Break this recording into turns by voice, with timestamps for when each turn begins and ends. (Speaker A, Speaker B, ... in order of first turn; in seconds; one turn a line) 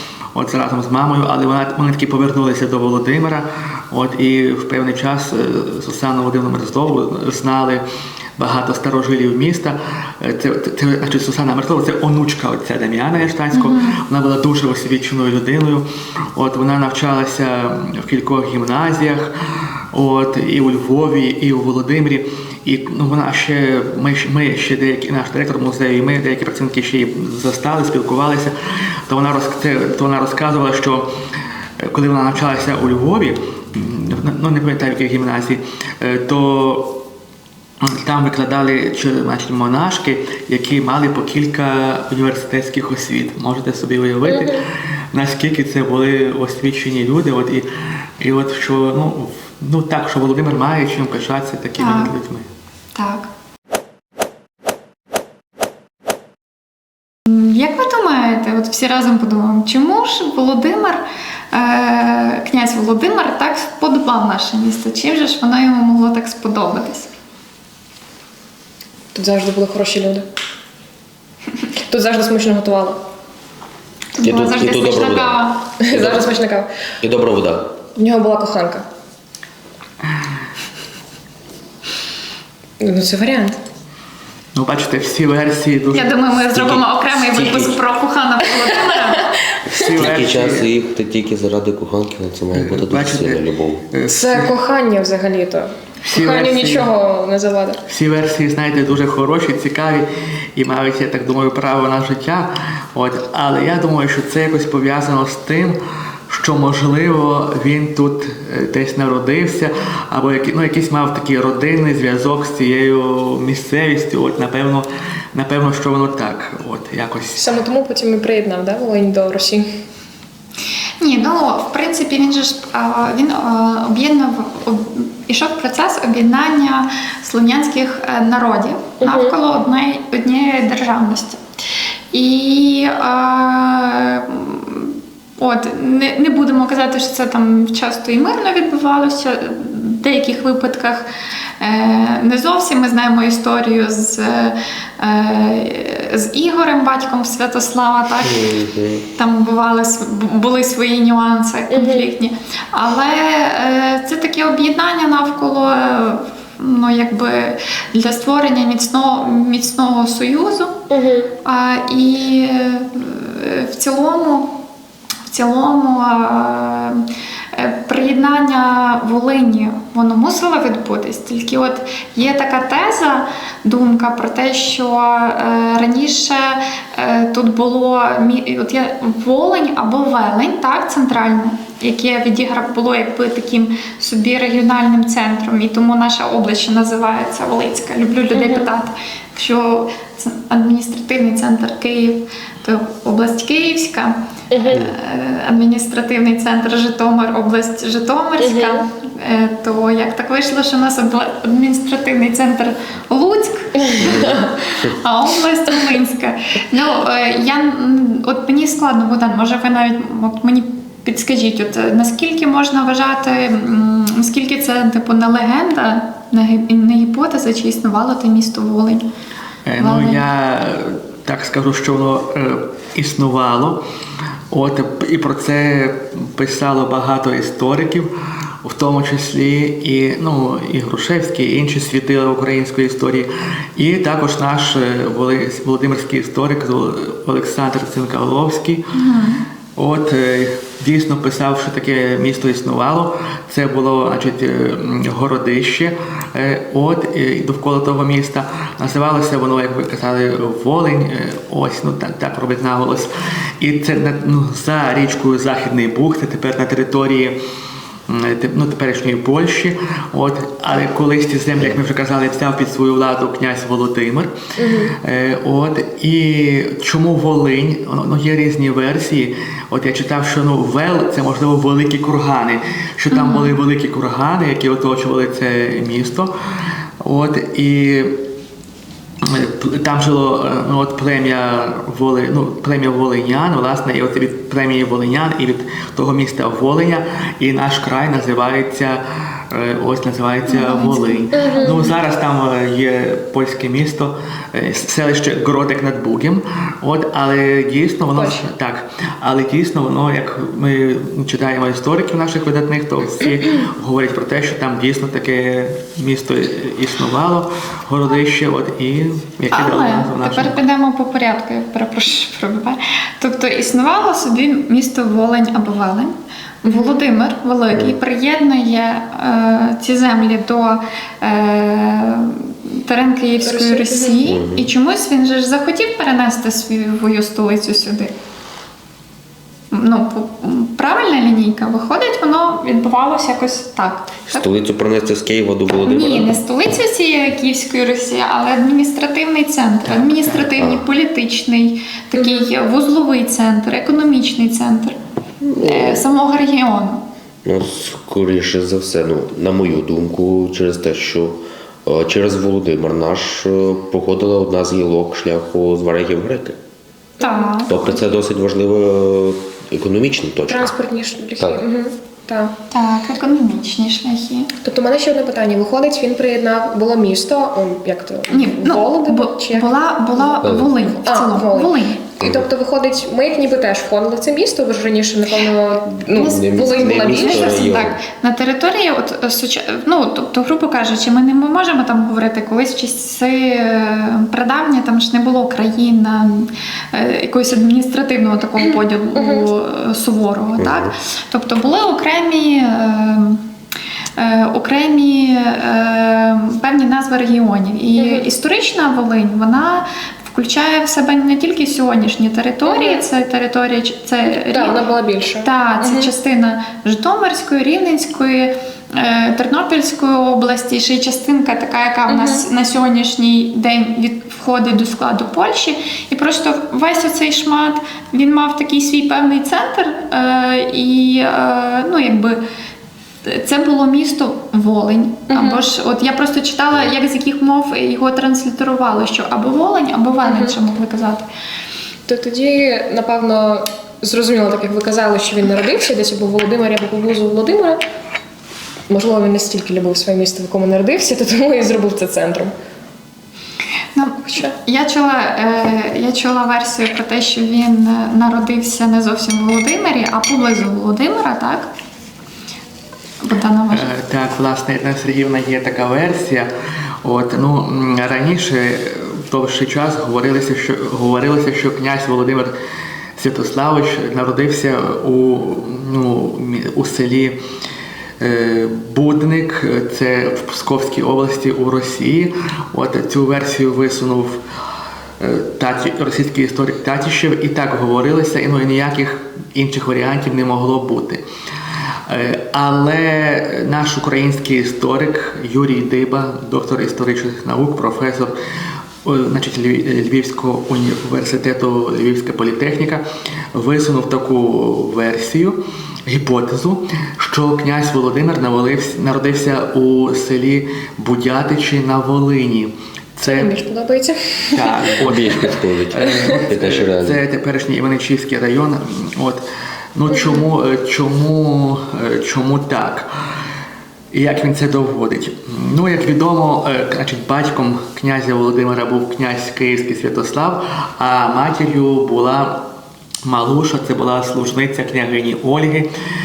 Speaker A: 0.3-7.8
Speaker A: 8.4-19.3
Speaker B: 13.5-14.0
Speaker A: 19.9-28.5
Speaker A: 29.1-31.1
Speaker A: 31.8-37.0
Speaker A: 37.8-47.7
Speaker C: 44.2-44.6
Speaker A: 48.2-52.5
Speaker B: 51.8-52.1
Speaker B: 53.0-53.3
Speaker B: 57.3-67.1
Speaker C: 69.1-70.3
Speaker C: 71.9-73.0
Speaker B: 74.2-75.7
Speaker D: 74.2-76.2
Speaker C: 75.8-76.7
Speaker D: 77.0-77.7
Speaker C: 78.0-78.9
Speaker C: 82.8-83.6
Speaker A: 84.5-86.2
Speaker B: 85.9-89.5
Speaker D: 86.6-87.8
Speaker C: 88.7-89.2
Speaker A: 89.7-90.7
Speaker D: 89.9-93.8
Speaker A: 92.5-94.5
Speaker C: 94.1-97.8
Speaker A: 96.0-96.9
Speaker A: 97.9-105.8
Speaker A: 106.3-117.5
Speaker C: 117.4-119.7
Speaker B: 121.0-131.4
Speaker C: 129.0-129.3
Speaker B: 132.1-141.1
Speaker B: 141.6-148.5
Speaker D: 148.2-149.1
Speaker B: 149.2-160.8
Speaker C: 151.7-152.1
Speaker C: 160.9-161.3
Speaker B: 161.4-164.5
Speaker B: 165.3-219.1
Speaker C: 188.3-188.7
Speaker C: 194.5-194.9
Speaker C: 198.4-198.8
Speaker C: 203.8-204.4
Speaker D: 204.0-205.0
Speaker A: 219.7-223.8
Speaker B: 219.8-220.2
Speaker A: 224.5-228.1
Speaker A: 228.6-238.9
Speaker B: 238.9-239.5
Speaker A: 239.8-257.4
Speaker A: 258.1-264.3
Speaker C: 264.6-264.9
Speaker A: 264.9-276.3
Speaker B: 273.1-273.5
Speaker A: 277.0-278.2
Speaker A: 279.2-310.6
Speaker B: 290.5-291.3
Speaker C: 291.3-291.9
Speaker C: 298.1-298.4
Speaker B: 309.5-328.1
Speaker C: 316.7-317.0
Speaker C: 323.4-324.2
Speaker D: 324.2-324.7
Speaker B: 329.7-334.5
Speaker D: 334.3-336.3
Speaker B: 335.9-345.0
Speaker A: 339.9-340.5
Speaker D: 340.6-340.8
Speaker C: 342.2-342.5
Speaker D: 345.4-346.0
Speaker B: 345.6-347.1
Speaker D: 347.4-356.6
Speaker C: 357.2-357.7
Speaker B: 357.2-357.8
Speaker D: 357.7-360.7
Speaker C: 360.5-362.6
Speaker B: 362.7-364.5
Speaker C: 364.6-377.7
Speaker B: 368.3-372.0
Speaker D: 370.4-370.7
Speaker B: 376.1-393.4
Speaker D: 376.2-378.0
Speaker C: 389.1-389.4
Speaker D: 390.6-390.9
Speaker B: 394.2-404.8
Speaker C: 398.0-398.3
Speaker C: 402.6-403.0
Speaker C: 404.3-406.1
Speaker B: 405.4-422.4
Speaker C: 412.1-412.4
Speaker B: 423.2-431.3
Speaker C: 425.3-425.6
Speaker C: 430.2-430.6
Speaker C: 432.1-437.8
Speaker C: 438.9-442.5
Speaker B: 443.9-451.7
Speaker B: 453.2-453.9
Speaker A: 453.7-456.5
Speaker A: 457.0-462.5
Speaker A: 463.2-467.4
Speaker A: 468.2-474.4
Speaker A: 475.2-481.2
Speaker A: 482.1-488.4
Speaker A: 489.0-503.6
Speaker C: 503.3-505.0
Speaker A: 504.5-513.1
Speaker D: 505.0-507.2
Speaker A: 514.1-522.7
Speaker A: 523.2-525.9